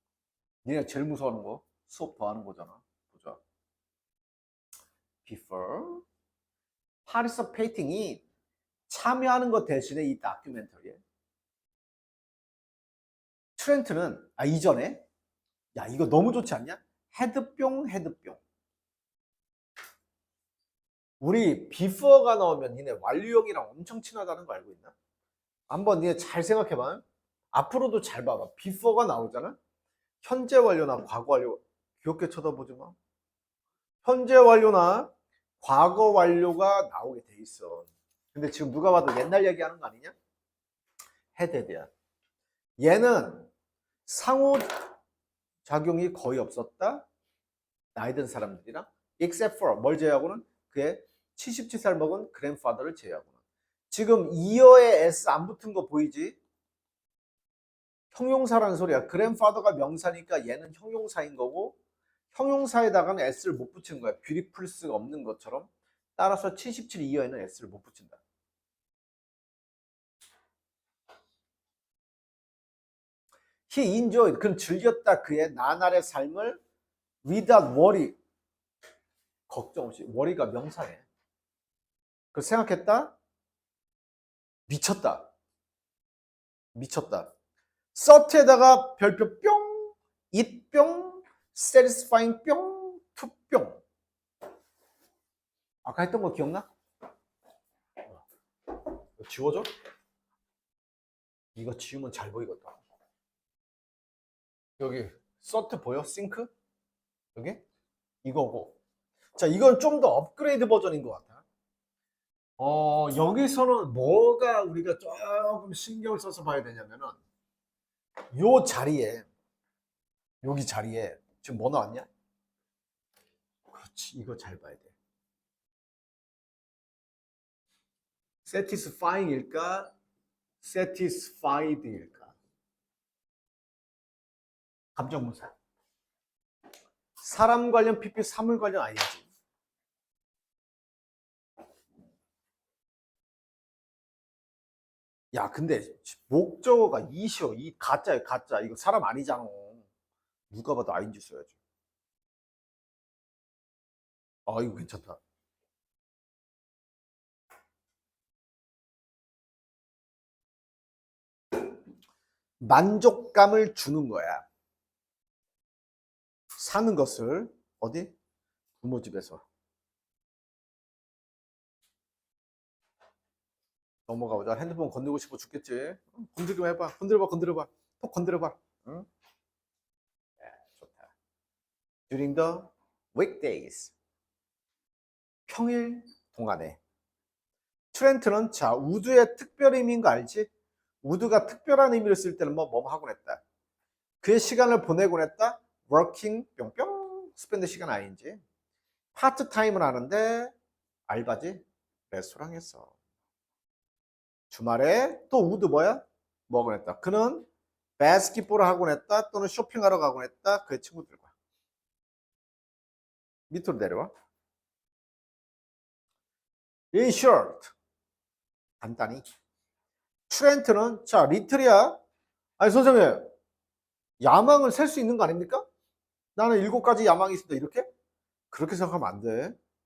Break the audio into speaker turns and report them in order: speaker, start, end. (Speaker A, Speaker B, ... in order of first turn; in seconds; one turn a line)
Speaker A: 0.6-3.4
Speaker A: 5.2-6.0
Speaker A: 7.1-8.2
Speaker A: 8.9-11.0
Speaker A: 13.6-15.0
Speaker A: 15.8-18.4
Speaker A: 21.2-24.9
Speaker A: 25.7-29.6
Speaker A: 30.2-33.0
Speaker A: 34.0-40.1
Speaker A: 41.4-41.9
Speaker A: 42.8-43.5
Speaker A: 44.1-44.9
Speaker A: 45.6-47.1
Speaker A: 48.0-53.3
Speaker A: 53.9-56.4
Speaker A: 58.1-61.8
Speaker A: 62.3-68.2
Speaker A: 73.7-76.6
Speaker A: 77.2-78.2
Speaker A: 79.5-81.0
Speaker A: 82.3-83.2
Speaker A: 84.7-85.3
Speaker A: 86.8-87.3
Speaker A: 87.9-93.8
Speaker A: 95.8-96.7
Speaker A: 99.2-99.7
Speaker A: 101.5-102.8
Speaker A: 104.8-106.5
Speaker A: 107.3-107.6
Speaker A: 108.2-108.8
Speaker A: 109.4-111.4
Speaker A: 112.6-117.2
Speaker A: 118.3-119.3
Speaker A: 120.4-122.1
Speaker A: 123.7-124.9
Speaker A: 128.4-129.9
Speaker A: 130.6-132.3
Speaker A: 135.0-135.5
Speaker A: 137.2-139.3
Speaker A: 145.3-149.9
Speaker A: 150.5-151.6
Speaker A: 154.5-155.2
Speaker A: 162.6-164.4
Speaker A: 166.6-168.1
Speaker A: 168.8-169.4
Speaker A: 174.1-179.1
Speaker A: 180.4-181.1
Speaker A: 182.1-183.9
Speaker A: 185.5-186.8
Speaker A: 187.9-190.5
Speaker A: 191.0-193.4
Speaker A: 194.2-198.4
Speaker A: 199.2-200.5
Speaker A: 201.1-202.9
Speaker A: 204.5-207.5
Speaker A: 208.0-211.3
Speaker A: 213.5-214.1
Speaker A: 216.9-217.7
Speaker A: 218.8-219.2
Speaker A: 220.3-222.0
Speaker A: 222.6-223.3
Speaker A: 224.2-225.6
Speaker A: 226.4-227.9
Speaker A: 228.5-229.6